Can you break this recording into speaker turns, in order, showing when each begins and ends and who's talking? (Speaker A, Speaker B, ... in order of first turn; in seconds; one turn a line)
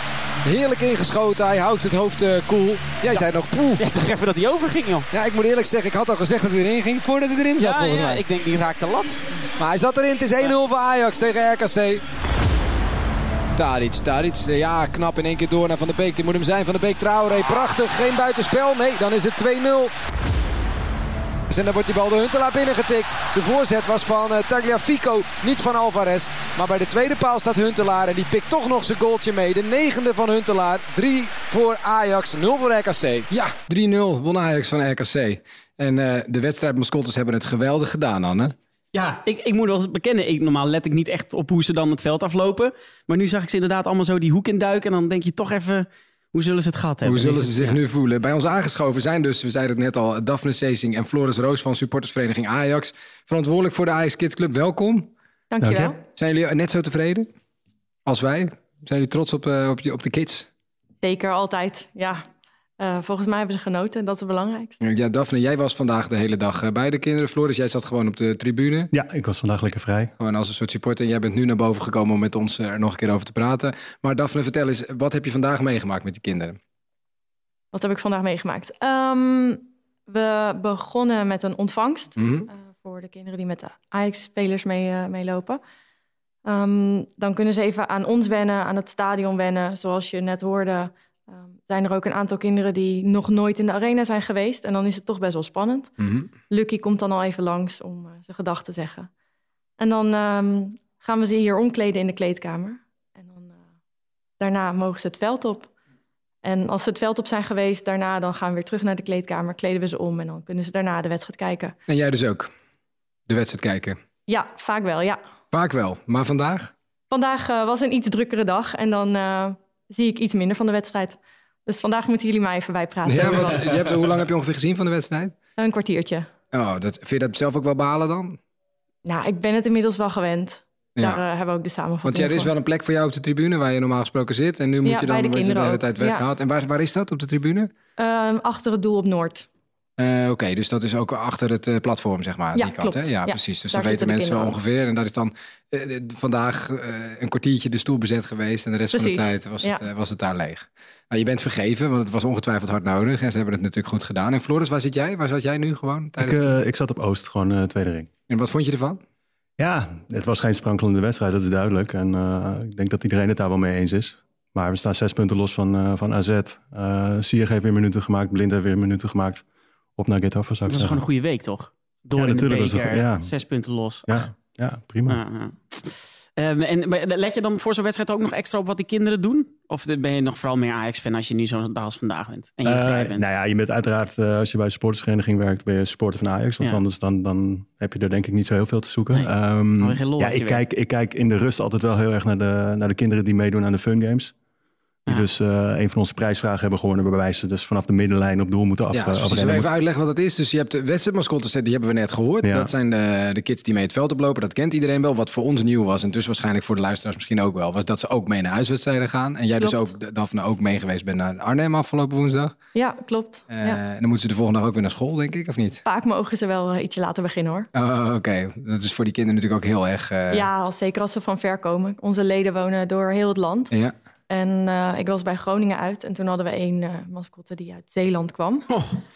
Speaker A: 0.4-3.9
Speaker B: 3.8-5.1
Speaker A: 5.1-8.2
Speaker B: 7.6-9.2
Speaker A: 9.6-12.0
Speaker A: 13.6-19.9
Speaker A: 21.5-38.5
Speaker B: 38.9-47.8
Speaker A: 47.0-55.1
Speaker C: 55.5-56.0
Speaker D: 55.6-55.9
Speaker A: 56.2-57.3
Speaker A: 58.1-60.5
Speaker C: 61.0-62.2
Speaker C: 62.8-64.8
Speaker A: 64.8-68.9
Speaker D: 68.9-70.1
Speaker A: 70.2-76.6
Speaker C: 77.7-85.6
Speaker A: 82.2-82.5
Speaker C: 86.4-95.9
Speaker A: 96.0-96.3
Speaker C: 96.5-99.1
Speaker C: 99.8-103.6
Speaker C: 104.4-105.7
Speaker C: 106.4-111.8
Speaker A: 111.9-112.5
Speaker A: 113.3-114.0
Speaker C: 114.3-115.2
Speaker A: 115.5-116.7
Speaker C: 117.1-123.8
Speaker A: 123.0-125.3
Speaker C: 125.6-126.3
Speaker A: 126.5-128.4
Speaker C: 129.1-132.5
Speaker A: 131.0-131.2
Speaker A: 132.0-137.7
Speaker C: 134.8-136.2
Speaker C: 138.0-139.4
Speaker A: 140.0-156.5
Speaker C: 142.6-144.6
Speaker C: 148.9-149.8
Speaker D: 156.2-158.1
Speaker A: 158.3-159.0
Speaker D: 159.6-169.4
Speaker D: 170.0-171.1
Speaker B: 170.7-174.2
Speaker D: 172.1-173.3
Speaker D: 174.1-175.2
Speaker B: 175.1-183.3
Speaker D: 182.6-194.3
Speaker B: 189.1-190.7
Speaker D: 195.1-199.7
Speaker A: 198.9-212.5
Speaker D: 202.4-202.7
Speaker C: 209.6-209.9
Speaker C: 212.8-213.8
Speaker A: 213.5-215.8
Speaker C: 215.8-217.7
Speaker A: 217.8-220.5
Speaker C: 220.3-223.7
Speaker C: 224.3-228.7
Speaker B: 228.7-229.0